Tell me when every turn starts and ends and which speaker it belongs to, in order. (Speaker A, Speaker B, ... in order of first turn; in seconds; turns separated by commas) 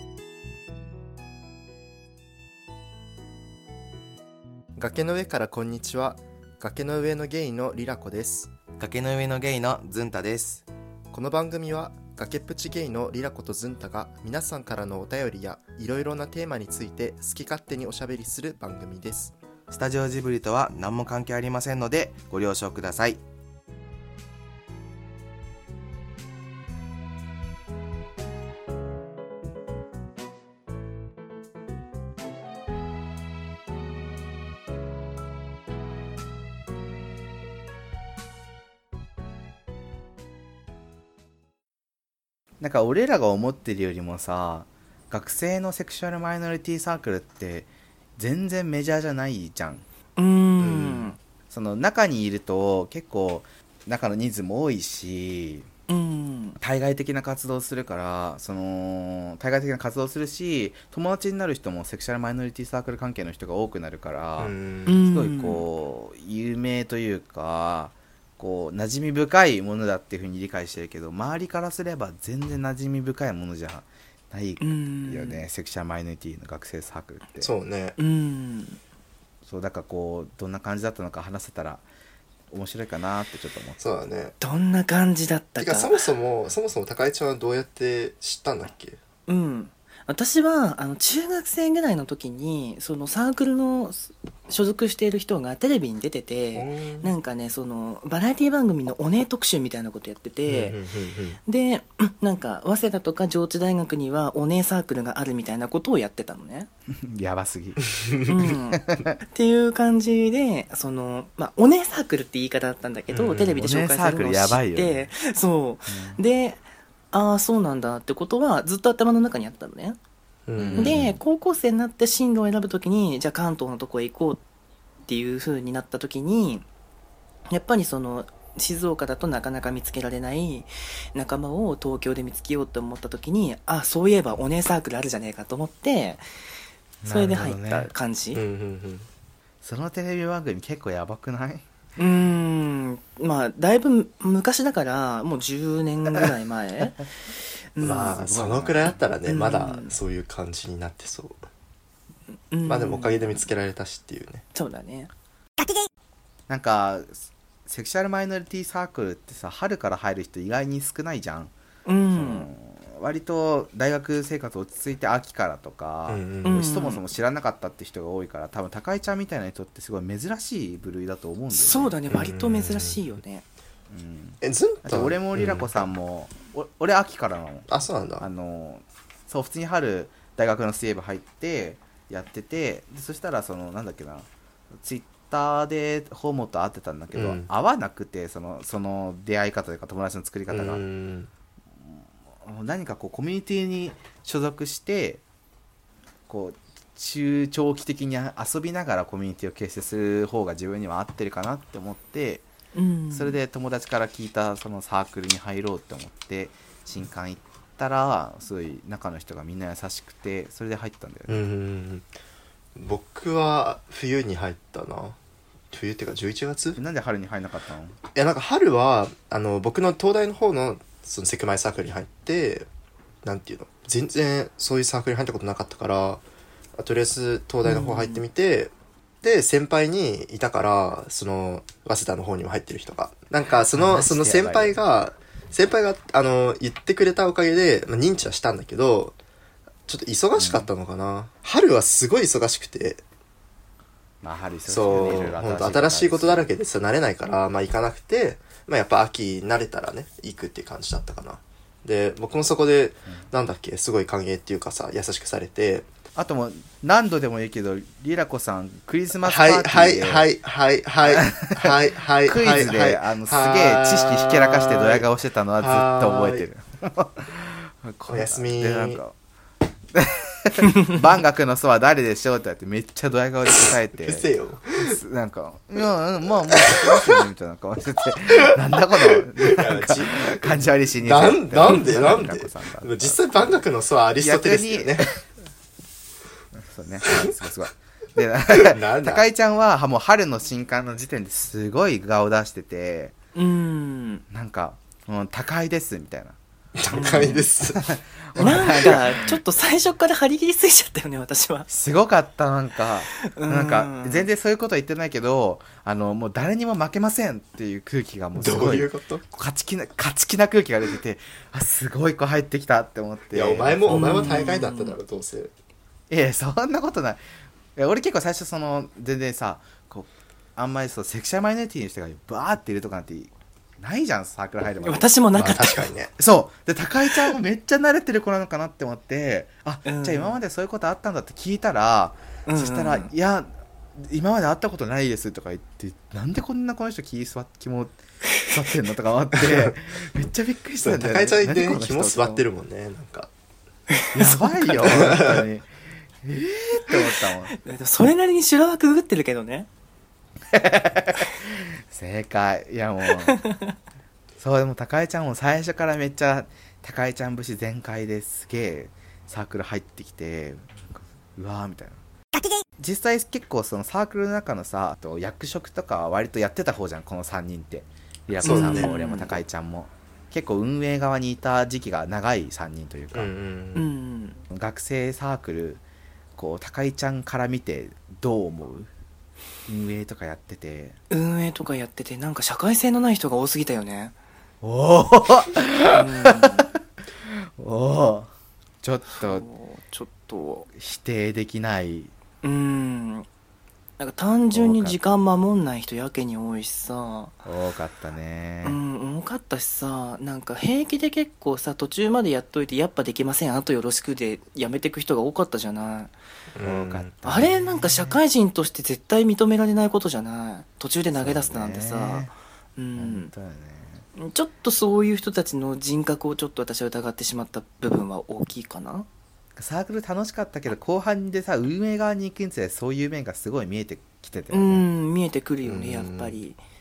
Speaker A: 4.8-8.5, Speaker B: 8.8-10.6, Speaker A: 11.1-19.3, Speaker B: 19.7-23.2, Speaker B: 42.6-49.8, Speaker C: 50.1-51.2, Speaker A: 50.6-51.1, Speaker B: 51.5-55.7, Speaker C: 55.9-56.6, Speaker B: 56.6-77.5, Speaker A: 64.4-65.0, Speaker C: 64.8-65.7, Speaker C: 74.6-75.4, Speaker A: 77.4-78.0, Speaker C: 78.0-78.8, Speaker B: 79.4-81.8, Speaker B: 82.5-83.8, Speaker A: 83.8-84.3, Speaker C: 84.4-86.0, Speaker A: 85.6-89.0, Speaker C: 89.3-100.8, Speaker A: 96.5-97.1, Speaker A: 100.4-101.4, Speaker C: 101.5-106.7, Speaker B: 107.0-107.8, Speaker A: 107.9-108.3, Speaker C: 108.3-116.6, Speaker A: 113.1-113.6, Speaker B: 113.5-115.1, Speaker B: 115.9-116.2, Speaker C: 117.1-120.0, Speaker A: 120.5-121.2, Speaker B: 120.6-121.1, Speaker C: 120.8-124.4, Speaker C: 125.1-126.7, Speaker C: 127.5-136.2, Speaker B: 137.0-137.9, Speaker C: 137.1-138.4, Speaker A: 138.3-139.1, Speaker B: 139.6-141.7, Speaker C: 142.0-147.1, Speaker C: 147.7-148.2, Speaker A: 147.8-151.4, Speaker B: 147.8-149.0, Speaker C: 149.3-149.9, Speaker C: 152.5-153.5, Speaker A: 152.7-154.4, Speaker C: 154.5-155.1, Speaker B: 156.5-161.5, Speaker C: 161.8-162.5, Speaker B: 162.1-172.0, Speaker A: 166.1-166.7, Speaker C: 166.4-167.0, Speaker C: 171.5-173.4, Speaker A: 172.1-173.0, Speaker B: 173.9-184.3, Speaker A: 174.4-175.9, Speaker A: 177.7-178.2, Speaker B: 184.8-190.8, Speaker A: 187.1-187.5, Speaker A: 190.5-191.3, Speaker B: 191.8-195.2, Speaker B: 196.3-202.4, Speaker C: 202.7-203.4, Speaker B: 203.1-211.4, Speaker A: 211.3-212.1, Speaker A: 212.8-215.2, Speaker A: 215.7-216.8, Speaker B: 216.7-218.0, Speaker A: 218.1-222.7, Speaker A: 223.2-226.2, Speaker A: 226.8-239.2, Speaker C: 227.6-228.2, Speaker B: 233.7-234.8, Speaker A: 239.9-243.0, Speaker B: 240.4-240.7, Speaker B: 244.2-246.5, Speaker A: 244.6-255.9, Speaker B: 256.1-260.3, Speaker A: 259.2-265.1, Speaker B: 261.0-269.1, Speaker A: 265.6-266.5, Speaker A: 268.1-269.0, Speaker B: 269.9-274.3, Speaker A: 273.5-275.0, Speaker B: 274.8-283.6, Speaker A: 276.6-277.2, Speaker A: 278.5-285.1, Speaker B: 284.2-285.2, Speaker B: 286.5-293.1, Speaker A: 288.5-289.3, Speaker C: 293.3-294.2, Speaker B: 294.3-296.4, Speaker A: 296.8-299.0, Speaker B: 296.9-299.2, Speaker C: 296.9-297.5, Speaker C: 298.4-301.7, Speaker B: 301.7-314.3, Speaker C: 303.1-304.3, Speaker A: 308.3-309.2, Speaker A: 313.3-315.5, Speaker C: 313.9-315.0, Speaker B: 316.1-317.2, Speaker B: 317.8-342.4, Speaker C: 324.8-325.8, Speaker A: 325.4-326.1, Speaker C: 329.9-330.4, Speaker C: 332.4-333.1, Speaker A: 339.3-339.8, Speaker A: 340.8-343.3, Speaker C: 344.0-344.6, Speaker B: 344.1-345.7, Speaker A: 344.8-345.4, Speaker B: 346.2-347.5, Speaker C: 346.9-349.7, Speaker B: 350.5-353.4, Speaker C: 353.4-353.7, Speaker B: 354.4-362.0, Speaker B: 362.8-373.3, Speaker C: 368.4-369.4, Speaker A: 368.4-368.9, Speaker A: 373.1-373.9, Speaker C: 373.7-374.4, Speaker B: 374.5-375.8, Speaker B: 376.4-378.9, Speaker B: 379.7-381.0, Speaker C: 381.1-384.1, Speaker B: 384.6-386.7, Speaker C: 385.9-386.7, Speaker B: 387.3-388.3, Speaker B: 388.8-389.4, Speaker C: 389.2-390.7, Speaker B: 390.7-392.1, Speaker C: 392.4-393.2, Speaker C: 394.0-397.4, Speaker B: 394.5-395.0, Speaker B: 397.4-398.8, Speaker C: 398.6-406.1, Speaker A: 406.5-407.1, Speaker B: 406.6-408.2, Speaker C: 407.2-413.3, Speaker B: 411.1-412.3, Speaker B: 412.9-414.1, Speaker C: 414.2-419.1, Speaker B: 419.6-424.9, Speaker C: 424.5-426.6, Speaker A: 425.6-426.4